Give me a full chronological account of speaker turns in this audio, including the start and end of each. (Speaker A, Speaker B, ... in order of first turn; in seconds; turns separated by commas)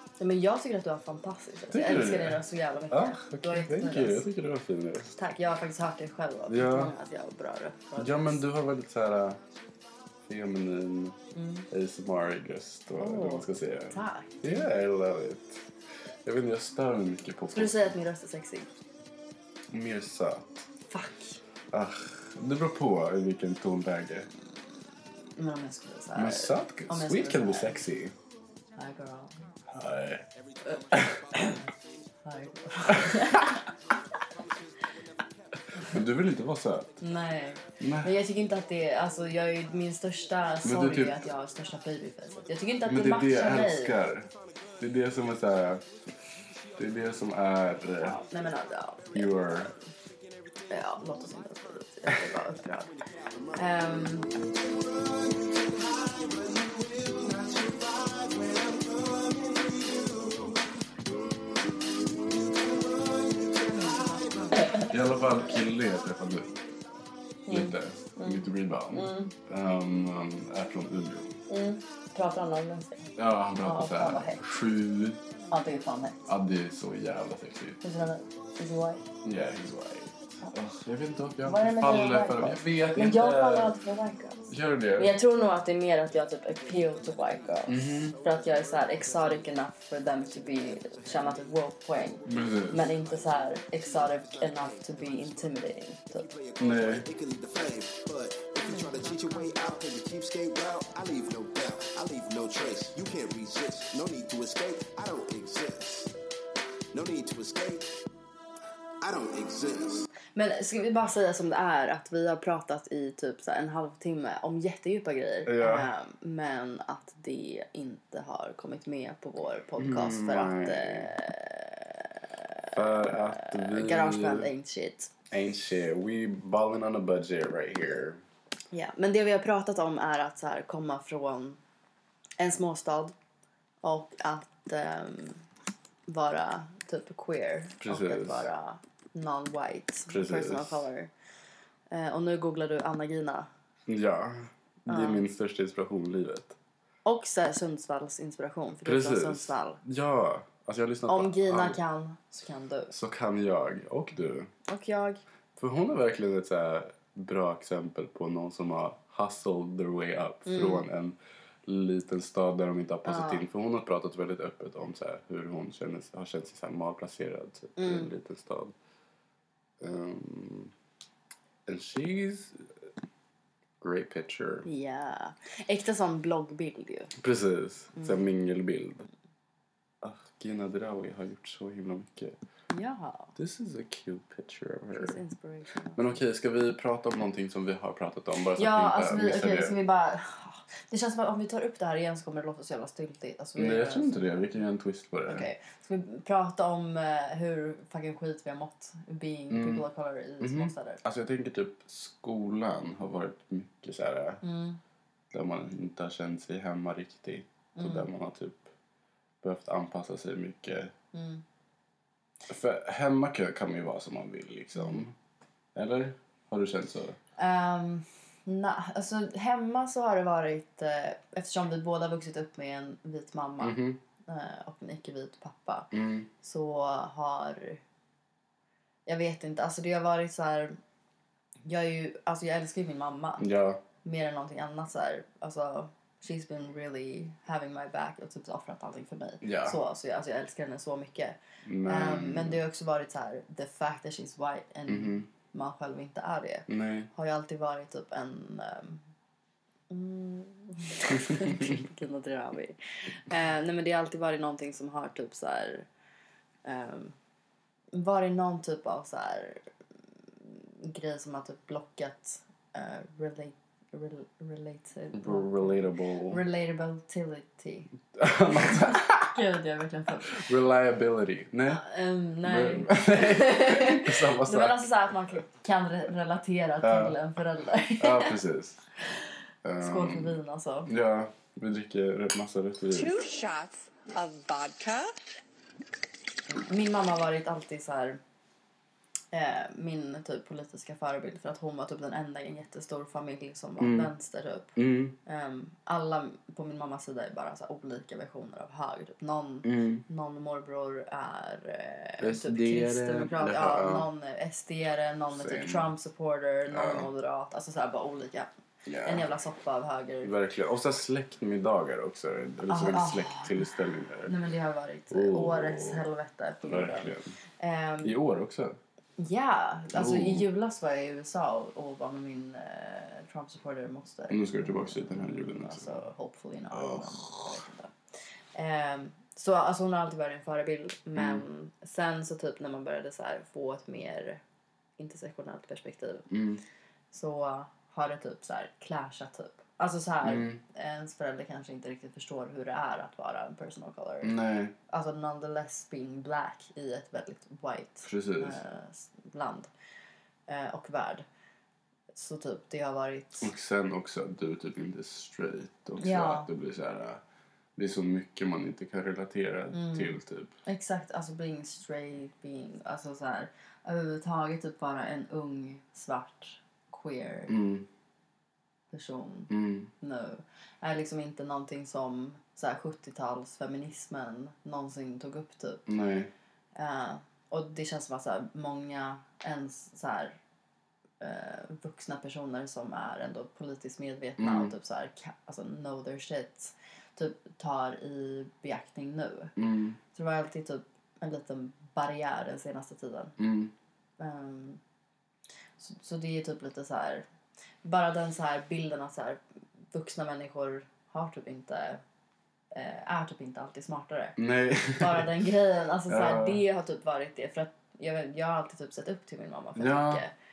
Speaker A: 0.2-4.3, Speaker B: 1.7-5.2, Speaker A: 5.1-8.4, Speaker B: 6.5-6.9, Speaker B: 8.0-9.4, Speaker B: 10.3-11.2, Speaker A: 11.3-11.7, Speaker B: 11.7-15.6, Speaker A: 13.0-14.6, Speaker B: 16.2-17.9, Speaker A: 17.5-18.7, Speaker B: 19.7-20.7, Speaker A: 20.9-21.4, Speaker B: 21.7-24.3, Speaker A: 25.3-27.9, Speaker B: 26.1-28.1, Speaker A: 28.8-29.4, Speaker B: 29.7-30.2, Speaker C: 30.3-36.0, Speaker B: 30.9-31.5, Speaker A: 31.4-31.7, Speaker A: 32.2-33.6, Speaker B: 35.8-36.9, Speaker C: 36.8-37.2, Speaker A: 37.0-44.0, Speaker B: 37.8-38.1, Speaker B: 40.6-41.3, Speaker B: 42.8-44.3, Speaker C: 44.1-60.8, Speaker B: 44.8-45.8, Speaker B: 46.8-48.2, Speaker A: 48.0-49.8, Speaker B: 49.1-49.7, Speaker A: 50.7-52.9, Speaker A: 53.5-54.3, Speaker C: 62.1-67.6, Speaker B: 64.8-66.5, Speaker A: 67.5-69.3, Speaker B: 67.5-71.3, Speaker A: 71.5-74.4, Speaker B: 73.2-75.2, Speaker A: 75.5-76.2, Speaker B: 76.3-77.8, Speaker A: 77.8-79.0, Speaker B: 79.2-83.8, Speaker A: 81.4-96.3, Speaker B: 84.5-85.1, Speaker C: 86.5-106.1, Speaker B: 87.7-88.1, Speaker B: 92.2-92.9, Speaker B: 96.6-97.1, Speaker C: 106.9-107.9, Speaker C: 109.0-110.1, Speaker A: 110.3-125.1, Speaker B: 115.5-115.9, Speaker B: 119.8-121.1, Speaker B: 122.7-124.5, Speaker B: 125.3-128.2, Speaker A: 128.7-131.6, Speaker A: 132.4-133.2, Speaker A: 133.8-135.4, Speaker A: 136.1-141.1, Speaker B: 137.8-138.5, Speaker B: 140.1-140.9, Speaker A: 141.9-143.5, Speaker B: 143.9-146.6, Speaker A: 144.9-145.2, Speaker A: 147.0-149.8, Speaker B: 148.8-151.8, Speaker A: 151.1-152.9, Speaker B: 152.9-154.5, Speaker A: 154.7-155.2, Speaker B: 155.6-168.7, Speaker A: 160.4-160.9, Speaker A: 163.0-163.4, Speaker A: 167.8-168.1, Speaker B: 169.8-170.7, Speaker B: 171.7-172.7, Speaker B: 173.8-174.7, Speaker A: 174.6-177.1, Speaker B: 177.2-179.1, Speaker A: 177.9-178.2, Speaker B: 180.0-182.4, Speaker A: 182.7-183.3, Speaker B: 183.4-185.2, Speaker A: 184.9-186.2, Speaker B: 185.9-189.8, Speaker A: 188.5-194.2, Speaker B: 193.6-195.5, Speaker A: 195.3-201.0, Speaker B: 199.5-199.9, Speaker B: 200.4-204.4, Speaker A: 204.4-204.8, Speaker B: 205.3-208.7, Speaker A: 207.8-208.1, Speaker B: 209.4-210.9, Speaker A: 211.1-211.4, Speaker B: 212.5-215.1, Speaker B: 215.8-217.2, Speaker A: 217.4-227.8, Speaker B: 223.6-224.0, Speaker B: 225.9-226.3, Speaker A: 229.1-230.8, Speaker A: 231.7-233.4, Speaker B: 233.4-233.8, Speaker A: 234.0-249.0, Speaker B: 239.4-239.8, Speaker B: 241.6-242.6, Speaker B: 244.9-245.2, Speaker B: 246.7-247.1, Speaker A: 249.9-255.9, Speaker B: 251.2-251.8, Speaker A: 256.6-257.1, Speaker A: 257.9-259.6, Speaker A: 260.4-270.5, Speaker B: 265.1-266.4, Speaker B: 268.1-269.4, Speaker B: 270.3-271.9, Speaker A: 271.7-278.4, Speaker B: 272.4-274.8, Speaker B: 276.8-277.2, Speaker B: 278.0-278.9, Speaker B: 279.6-283.1, Speaker A: 279.8-280.9, Speaker D: 282.9-285.1, Speaker A: 286.5-288.2, Speaker A: 289.3-308.5, Speaker B: 293.8-294.1, Speaker B: 294.8-295.1, Speaker B: 299.6-300.0, Speaker B: 302.2-304.1, Speaker B: 305.3-305.9, Speaker B: 306.7-307.1, Speaker B: 308.9-309.2, Speaker A: 309.0-310.3, Speaker B: 310.2-314.3, Speaker A: 312.7-313.6, Speaker A: 314.2-318.1, Speaker B: 315.1-316.0, Speaker B: 316.6-317.3, Speaker B: 318.0-318.8, Speaker A: 319.2-327.9, Speaker B: 319.9-320.4, Speaker B: 324.3-326.0, Speaker B: 326.7-327.5, Speaker A: 328.5-334.4, Speaker B: 331.1-331.4, Speaker A: 335.0-336.3, Speaker B: 336.3-336.6, Speaker A: 337.1-344.4, Speaker B: 340.2-340.6, Speaker B: 344.2-344.7, Speaker A: 344.9-349.7, Speaker B: 348.0-348.6, Speaker A: 350.5-351.2, Speaker A: 352.1-353.5, Speaker B: 353.4-357.2, Speaker A: 356.0-356.5, Speaker B: 357.8-360.5, Speaker A: 359.7-367.5, Speaker B: 367.5-367.9, Speaker A: 368.9-375.9, Speaker B: 369.5-369.9, Speaker B: 375.9-376.3, Speaker A: 376.8-380.4, Speaker A: 381.2-389.5, Speaker B: 384.4-384.7, Speaker B: 389.6-390.0, Speaker A: 390.1-393.4, Speaker B: 393.4-393.7, Speaker A: 394.2-394.8, Speaker A: 395.8-397.3, Speaker A: 397.8-402.0, Speaker A: 402.7-404.4, Speaker B: 404.4-405.3, Speaker A: 404.9-410.3, Speaker B: 406.1-406.6, Speaker B: 409.8-410.2